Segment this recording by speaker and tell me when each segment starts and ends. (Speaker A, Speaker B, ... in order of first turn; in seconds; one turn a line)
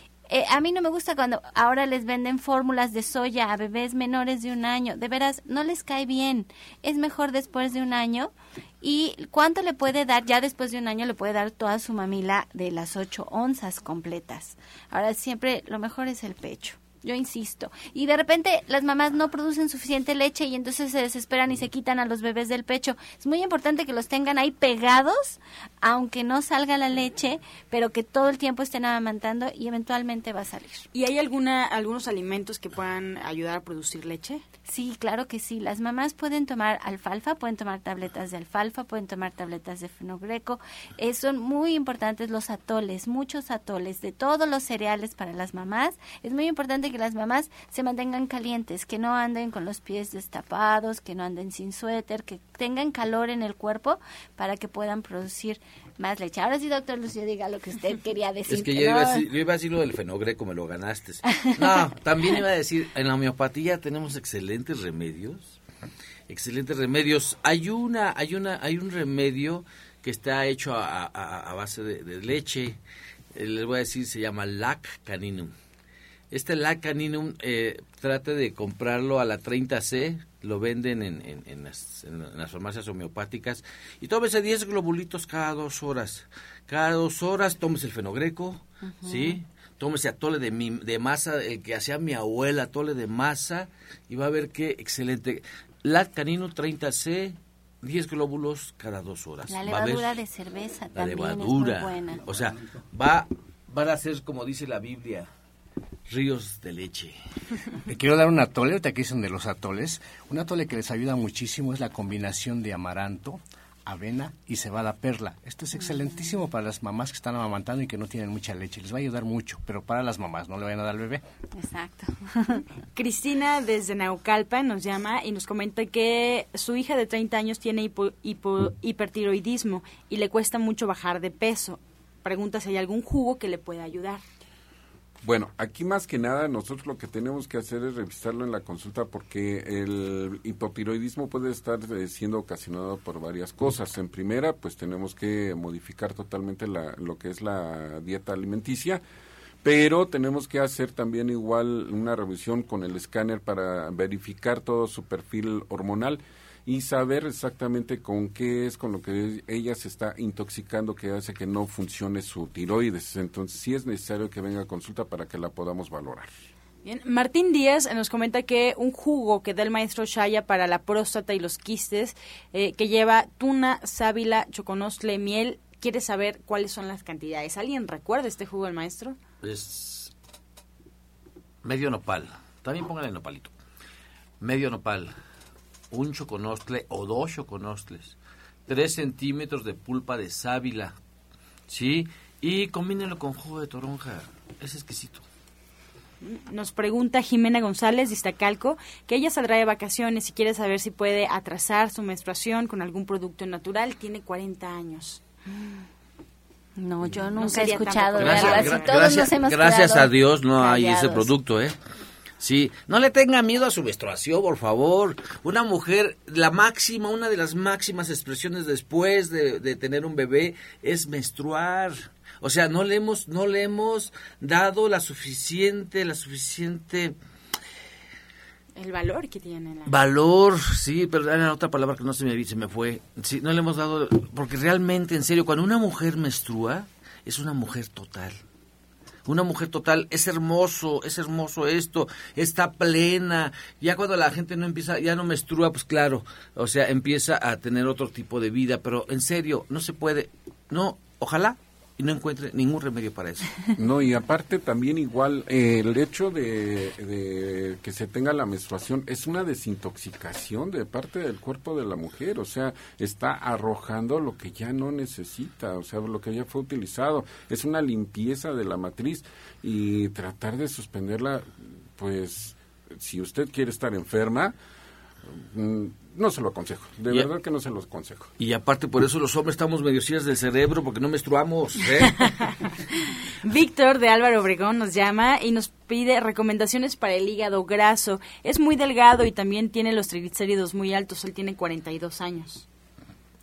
Speaker A: 0.3-30.9
Speaker B: 30.9-34.4
Speaker A: 34.6-59.2
Speaker C: 58.5-65.6
Speaker C: 66.3-72.8
Speaker C: 73.3-75.5
Speaker C: 76.3-100.1
Speaker A: 88.8-89.4
Speaker A: 99.5-102.2
Speaker C: 100.9-105.3
Speaker C: 106.1-107.2
Speaker D: 107.9-121.2
Speaker A: 121.5-122.6
Speaker B: 122.9-134.2
Speaker E: 135.2-149.0
Speaker E: 149.6-166.3
Speaker B: 166.8-179.2
Speaker C: 179.4-180.1
Speaker C: 181.6-183.5
Speaker C: 184.4-185.1
Speaker C: 185.9-188.2
Speaker C: 188.7-191.0
Speaker C: 191.7-195.2
Speaker B: 196.2-205.2
Speaker A: 205.5-205.8
Speaker A: 206.8-211.3
Speaker B: 207.4-208.9
Speaker C: 208.2-211.8
Speaker C: 212.4-227.2
Speaker B: 228.8-229.9
Speaker C: 229.8-238.4
Speaker C: 239.2-253.5
Speaker E: 253.8-274.5
Speaker E: 275.3-278.3
Speaker C: 278.4-282.3
Speaker B: 283.4-292.6